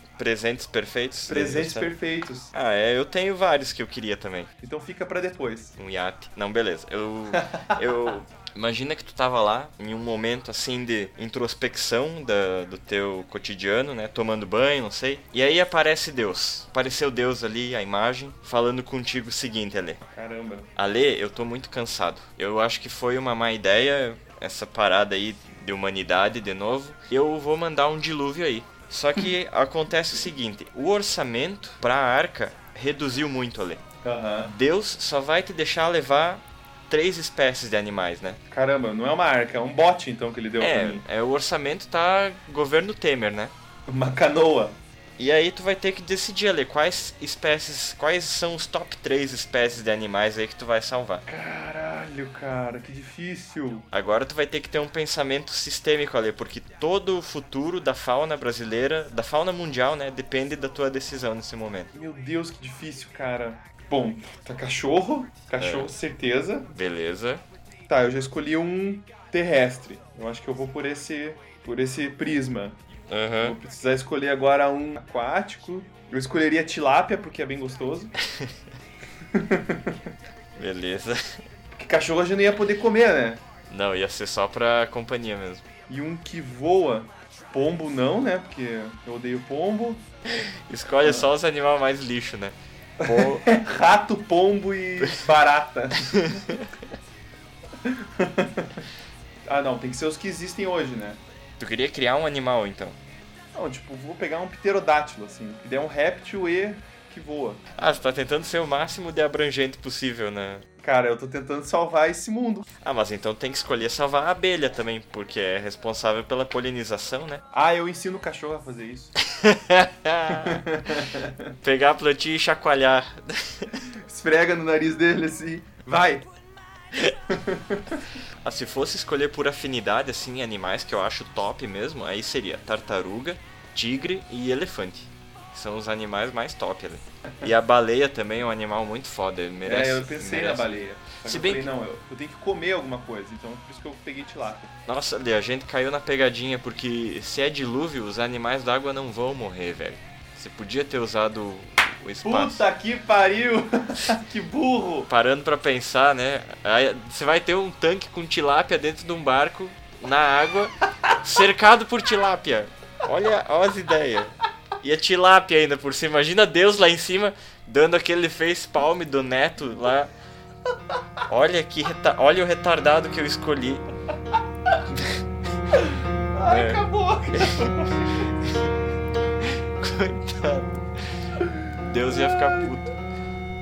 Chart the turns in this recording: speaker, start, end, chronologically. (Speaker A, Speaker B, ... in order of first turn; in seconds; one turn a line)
Speaker A: 0.2-1.9
Speaker B: 1.3-2.5
Speaker A: 2.5-4.5
Speaker B: 4.6-5.8
Speaker A: 5.8-20.0
Speaker B: 7.3-7.8
Speaker B: 20.1-20.7
Speaker A: 20.8-33.8
Speaker B: 34.0-34.5
Speaker A: 34.5-38.4
Speaker B: 38.5-41.0
Speaker A: 40.6-43.5
Speaker B: 43.9-44.8
Speaker A: 45.2-51.2
Speaker B: 51.3-53.9
Speaker A: 53.9-61.9
Speaker B: 61.9-66.7
Speaker A: 65.6-65.9
Speaker A: 66.7-67.4
Speaker B: 67.9-72.8
Speaker A: 73.1-73.6
Speaker B: 73.4-78.1
Speaker B: 79.3-80.0
Speaker A: 80.6-81.4
Speaker B: 81.8-83.4
Speaker A: 83.7-85.6
Speaker B: 85.9-90.0
Speaker A: 90.3-93.5
Speaker B: 91.0-91.3
Speaker B: 93.0-96.5
Speaker A: 96.2-96.6
Speaker B: 97.8-98.8
Speaker B: 99.5-101.2
Speaker A: 101.6-103.0
Speaker B: 103.5-107.6
Speaker A: 107.8-110.7
Speaker B: 110.8-112.7
Speaker A: 112.8-117.4
Speaker B: 117.5-119.2
Speaker A: 119.3-120.6
Speaker B: 120.4-121.5
Speaker A: 121.6-123.8
Speaker B: 124.0-126.3
Speaker B: 127.3-128.0
Speaker A: 128.4-140.7
Speaker B: 139.7-144.7
Speaker A: 141.2-141.7
Speaker A: 144.9-152.6
Speaker B: 152.2-155.1
Speaker A: 155.1-170.1
Speaker A: 171.3-173.8
Speaker B: 176.3-178.3
Speaker A: 176.4-176.8
Speaker A: 177.3-178.5
Speaker A: 179.5-181.0
Speaker A: 181.8-182.9